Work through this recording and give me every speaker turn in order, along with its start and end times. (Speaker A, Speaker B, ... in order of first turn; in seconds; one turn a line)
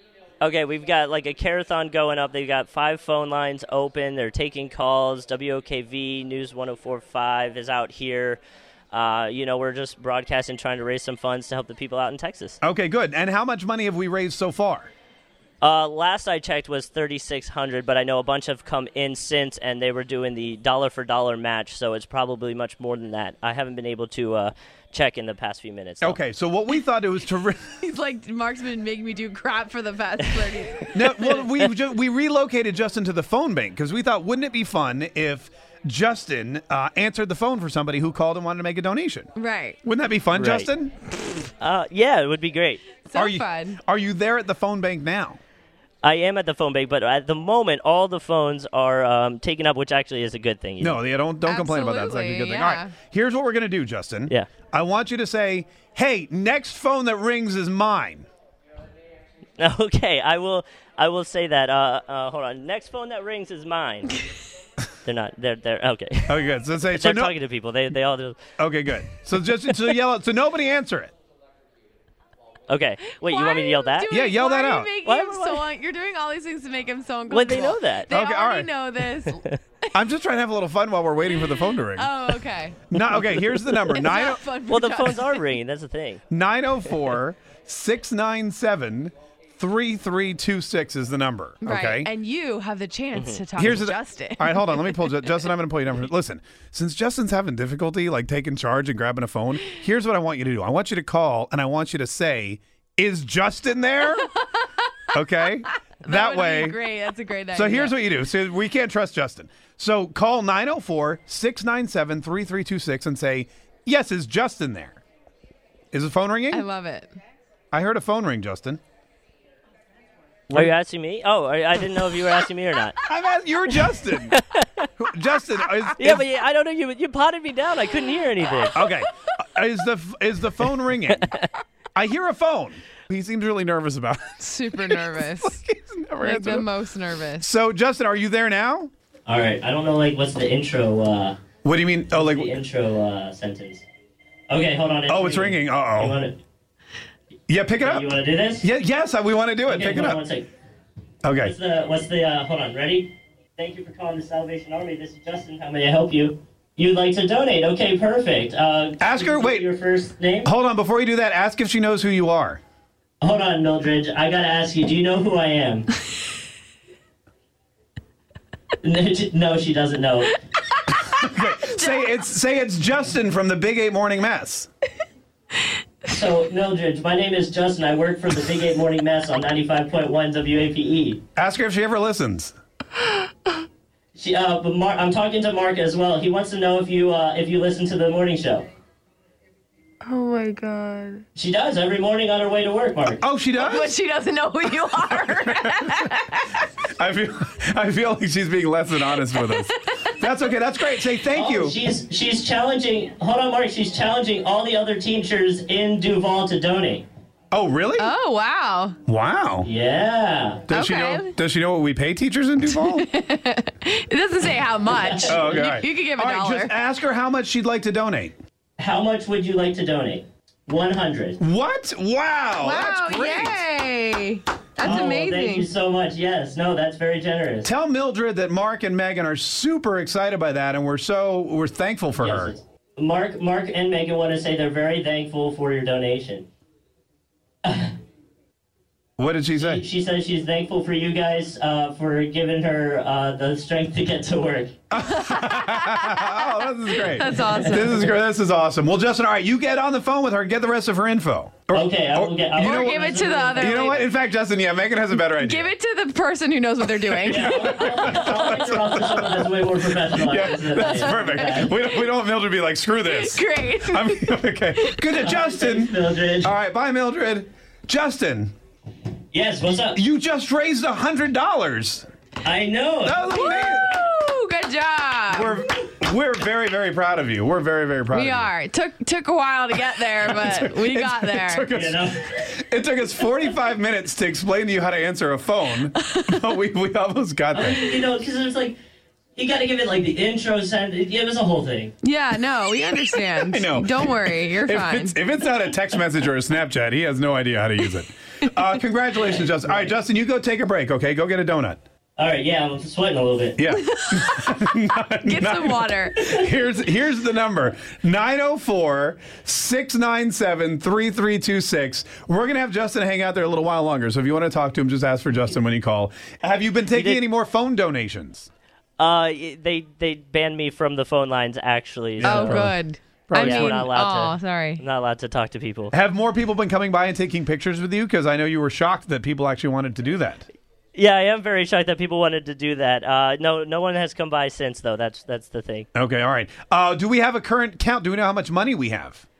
Speaker A: 0.4-12.6
Speaker B: 12.6-14.9
Speaker A: 15.6-26.2
Speaker B: 26.0-27.8
Speaker C: 27.8-31.0
Speaker B: 30.9-39.3
Speaker C: 39.4-39.8
Speaker B: 39.8-40.9
Speaker A: 40.3-40.7
Speaker A: 41.6-42.8
Speaker C: 43.1-43.8
Speaker B: 43.1-45.4
Speaker A: 46.0-51.0
Speaker B: 50.8-58.3
Speaker C: 51.4-52.9
Speaker A: 59.6-64.2
Speaker A: 65.0-68.4
Speaker B: 66.3-67.3
Speaker B: 68.6-71.1
Speaker A: 72.7-74.1
Speaker C: 73.2-79.4
Speaker B: 74.1-74.9
Speaker A: 75.0-75.7
Speaker A: 77.3-78.1
Speaker B: 78.1-78.7
Speaker A: 79.3-79.6
Speaker B: 79.9-82.1
Speaker C: 81.4-82.8
Speaker B: 82.9-84.4
Speaker A: 83.0-83.7
Speaker C: 83.9-85.4
Speaker A: 84.7-86.2
Speaker B: 86.3-92.1
Speaker C: 91.6-95.1
Speaker A: 93.1-93.4
Speaker B: 93.6-104.3
Speaker B: 105.1-106.8
Speaker C: 106.0-108.0
Speaker B: 107.5-115.0
Speaker B: 115.9-116.7
Speaker C: 116.5-117.2
Speaker B: 117.7-118.8
Speaker A: 120.5-123.0
Speaker B: 123.1-124.3
Speaker A: 123.7-124.9
Speaker B: 125.0-126.3
Speaker A: 126.0-128.8
Speaker B: 128.7-131.3
Speaker A: 131.1-131.5
Speaker B: 131.9-136.7
Speaker C: 134.4-135.6
Speaker C: 136.2-137.5
Speaker B: 137.4-138.9
Speaker A: 139.3-141.4
Speaker B: 141.6-142.6
Speaker A: 142.1-143.8
Speaker A: 144.5-146.4
Speaker B: 145.1-146.2
Speaker B: 147.5-150.2
Speaker A: 147.8-148.7
Speaker A: 149.7-150.5
Speaker B: 151.2-151.6
Speaker A: 151.4-160.5
Speaker B: 159.0-159.7
Speaker B: 160.4-162.6
Speaker A: 163.2-165.9
Speaker A: 168.8-170.3
Speaker B: 171.2-174.7
Speaker A: 176.1-181.2
Speaker B: 181.4-182.6
Speaker A: 184.2-188.7
Speaker C: 190.1-191.2
Speaker A: 191.3-193.2
Speaker B: 193.2-193.9
Speaker C: 193.6-196.6
Speaker B: 195.1-196.1
Speaker B: 197.0-201.8
Speaker C: 199.3-200.1
Speaker A: 201.3-207.1
Speaker B: 207.5-208.1
Speaker C: 208.0-209.0
Speaker B: 209.1-209.7
Speaker A: 209.6-210.6
Speaker B: 210.7-213.1
Speaker C: 210.7-211.3
Speaker C: 212.7-216.8
Speaker A: 214.9-215.8
Speaker B: 215.3-218.3
Speaker A: 218.8-221.4
Speaker B: 221.4-223.6
Speaker C: 222.6-225.7
Speaker A: 224.8-227.7
Speaker B: 227.6-232.6
Speaker A: 232.2-236.5
Speaker A: 237.6-237.9
Speaker B: 239.2-239.8
Speaker A: 239.6-244.8
Speaker B: 244.9-255.7
Speaker C: 245.3-248.1
Speaker A: 251.7-254.1
Speaker C: 252.6-254.0
Speaker C: 255.3-258.0
Speaker B: 257.0-268.5
Speaker A: 257.2-261.8
Speaker C: 260.7-261.7
Speaker C: 263.1-265.1
Speaker A: 265.1-266.5
Speaker A: 269.3-270.0
Speaker B: 269.9-272.1
Speaker A: 272.4-273.8
Speaker B: 273.0-274.0
Speaker C: 273.4-275.6
Speaker B: 275.3-278.5
Speaker C: 278.1-281.7
Speaker B: 280.2-288.0
Speaker A: 281.7-282.5
Speaker C: 286.0-286.4
Speaker A: 287.5-288.8
Speaker A: 289.4-291.9
Speaker C: 292.0-295.2
Speaker B: 293.3-301.8
Speaker A: 299.2-299.9
Speaker A: 302.2-303.6
Speaker B: 303.6-318.5
Speaker C: 303.7-306.3
Speaker A: 316.9-317.3
Speaker A: 319.0-322.7
Speaker B: 322.2-322.7
Speaker C: 322.2-324.8
Speaker B: 323.3-323.9
Speaker A: 323.4-325.9
Speaker B: 325.9-330.4
Speaker A: 330.9-335.9
Speaker B: 335.9-339.2